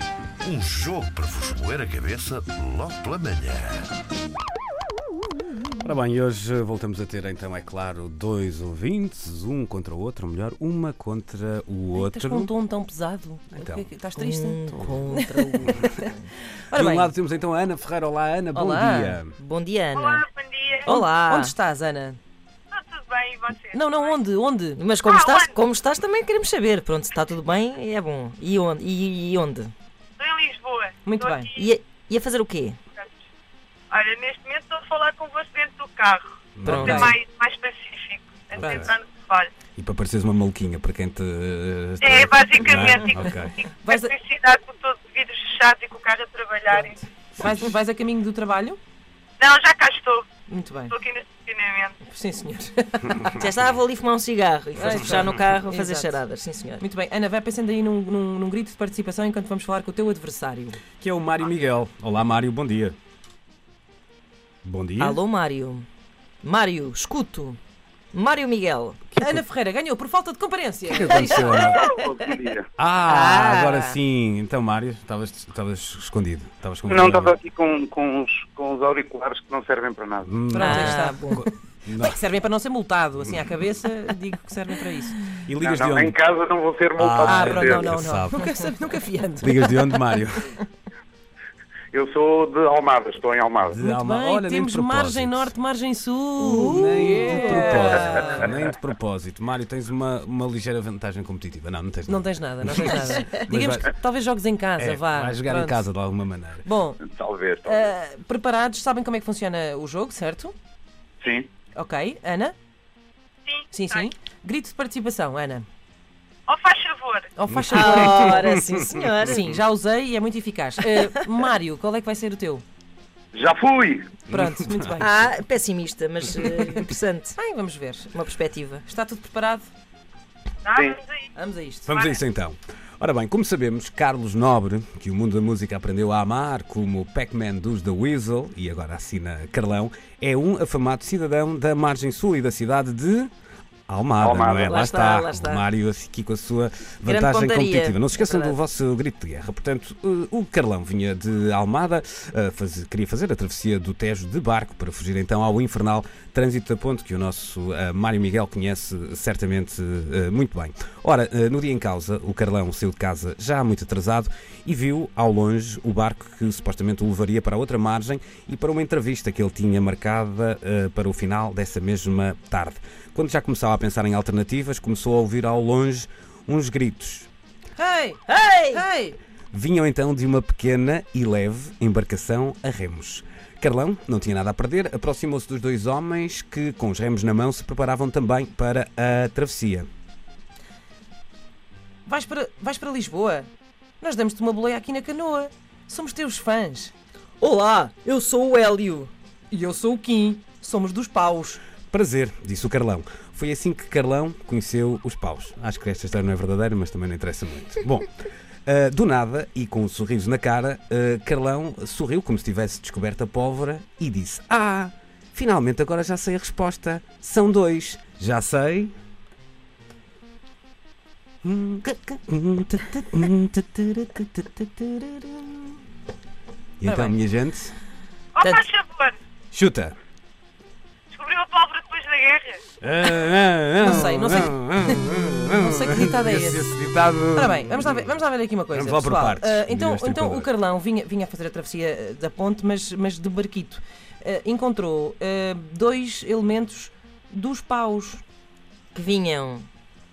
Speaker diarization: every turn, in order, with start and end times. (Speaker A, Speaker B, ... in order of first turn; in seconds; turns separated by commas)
Speaker A: 0.4-3.9, Speaker B: 5.8-12.5, Speaker C: 11.9-17.1, Speaker B: 13.5-13.9, Speaker D: 14.2-15.7, Speaker B: 15.6-15.9, Speaker B: 16.7-19.4, Speaker C: 18.5-19.2, Speaker D: 19.4-20.3, Speaker E: 19.9-20.9, Speaker D: 20.9-21.5, Speaker C: 20.9-22.2, Speaker E: 22.7-24.1, Speaker C: 23.7-24.8, Speaker D: 24.8-29.7, Speaker E: 25.1-25.6, Speaker E: 30.2-31.6, Speaker C: 31.1-31.5, Speaker D: 31.6-32.8, Speaker E: 33.9-39.5, Speaker B: 36.6-37.2, Speaker C: 36.6-37.2, Speaker D: 36.7-37.1, Speaker B: 38.5-38.9, Speaker C: 38.6-38.9, Speaker B: 39.8-43.6, Speaker E: 42.0-47.0, Speaker C: 43.8-44.1, Speaker C: 46.7-48.8, Speaker E: 49.4-50.3, Speaker C: 50.5-51.0, Speaker E: 50.9-52.0, Speaker C: 52.0-53.5, Speaker D: 53.3-56.8, Speaker C: 54.8-56.2, Speaker B: 54.8-55.1, Speaker C: 56.8-60.8, Speaker B: 61.0-63.0, Speaker B: 64.6-65.2, Speaker D: 65.0-65.9, Speaker D: 66.4-67.6, Speaker D: 68.1-69.1, Speaker C: 69.2-71.6, Speaker B: 70.9-71.9, Speaker D: 71.1-72.3, Speaker F: 72.0-72.7, Speaker B: 72.8-77.4, Speaker D: 73.1-74.0, Speaker F: 76.9-80.3, Speaker B: 80.2-82.2, Speaker C: 80.5-85.2, Speaker D: 80.5-81.4, Speaker B: 85.5-86.2, Speaker F: 85.6-87.9, Speaker B: 87.0-88.6, Speaker C: 87.2-89.9, Speaker B: 89.4-90.5, Speaker F: 91.9-93.7, Speaker B: 93.7-95.5, Speaker C: 93.8-98.5, Speaker B: 96.5-103.9, Speaker D: 96.5-98.3, Speaker C: 102.1-105.8, Speaker B: 104.8-106.7, Speaker C: 106.7-107.0, Speaker F: 107.1-107.8, Speaker C: 107.7-110.5, Speaker C: 111.8-112.5, Speaker E: 113.5-114.1, Speaker C: 113.7-115.7, Speaker E: 116.5-117.3, Speaker C: 117.4-118.5, Speaker B: 117.5-119.0, Speaker D: 117.7-119.5, Speaker C: 119.2-122.6, Speaker F: 123.3-124.2, Speaker C: 124.3-125.2, Speaker B: 124.3-124.7, Speaker D: 125.0-127.4, Speaker C: 127.4-128.2, Speaker D: 128.1-128.8, Speaker C: 128.8-129.7, Speaker E: 130.6-131.2, Speaker C: 131.4-131.9, Speaker B: 131.9-143.3, Speaker E: 131.9-132.2, Speaker B: 143.9-177.3, Speaker F: 144.3-144.6, Speaker D: 144.6-145.6, Speaker D: 147.1-148.6, Speaker C: 177.8-179.2, Speaker D: 178.3-178.8, Speaker B: 179.5-189.9, Speaker C: 192.1-193.5, Speaker C: 194.0-196.9, Speaker D: 197.4-199.1, Speaker C: 199.5-201.6, Speaker B: 201.9-208.1, Speaker B: 208.7-218.9, Speaker B: 221.4-225.8, Speaker B: 226.8-227.8, Speaker C: 226.8-227.2, Speaker E: 228.4-229.2, Speaker B: 229.5-230.0, Speaker E: 231.1-232.6, Speaker B: 232.8-238.1, Speaker C: 233.8-236.7, Speaker C: 237.3-248.2, Speaker B: 238.7-240.5, Speaker D: 248.9-249.7